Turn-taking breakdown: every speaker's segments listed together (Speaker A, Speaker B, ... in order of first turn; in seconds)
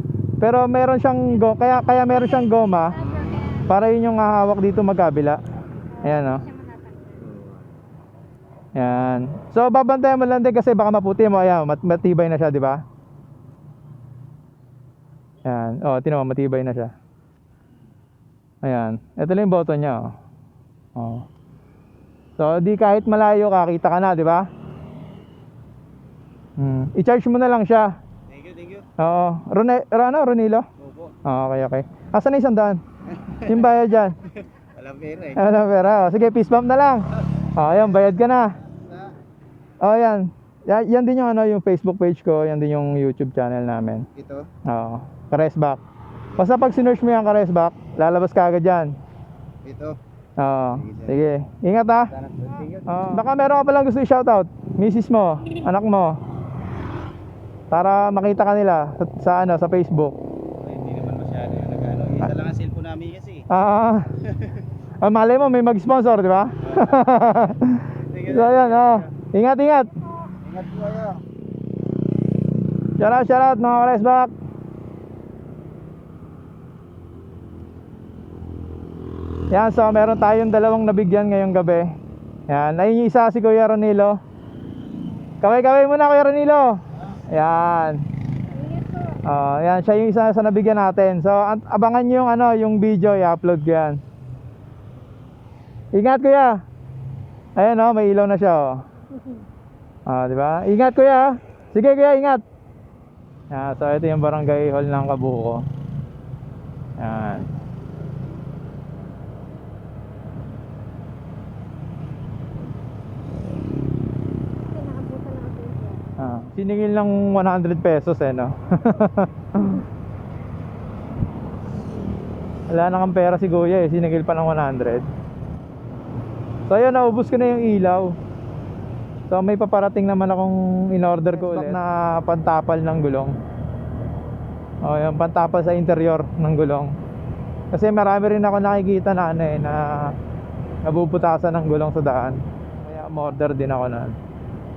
Speaker A: 0.4-3.1, 3.7-5.4, 6.0-6.5, 8.8-12.8, 15.4-16.9, 18.6-20.1, 21.0-21.2, 22.4-24.5, 26.6-27.9, 29.0-30.7, 31.2-32.8, 33.4-34.2, 35.4-38.6, 39.8-44.1, 44.7-45.8, 46.4-48.9, 50.4-52.1, 52.9-56.2, 57.7-60.2, 63.5-64.2, 65.0-69.9, 73.0-74.3, 79.5-81.9, 82.5-84.2, 85.4-88.0, 89.2-94.0, 95.9-96.6, 97.6-98.8, 100.1-102.4, 103.5-105.7, 107.0-107.5, 116.2-119.8, 122.7-125.1, 126.7-128.2, 129.3-133.3, 134.8-136.9, 137.7-140.2, 140.8-144.2
Speaker B: 1.8-3.7, 5.9-7.2, 70.0-70.3, 88.5-89.2, 114.7-116.0
Speaker C: 3.1-3.4, 7.2-7.7, 28.3-28.9, 30.8-31.1, 33.2-33.7, 34.3-35.4, 37.4-39.1, 44.2-44.5, 49.6-50.0, 50.8-51.1, 52.1-53.2, 60.6-63.5, 66.6-67.1, 68.0-69.1, 70.4-71.2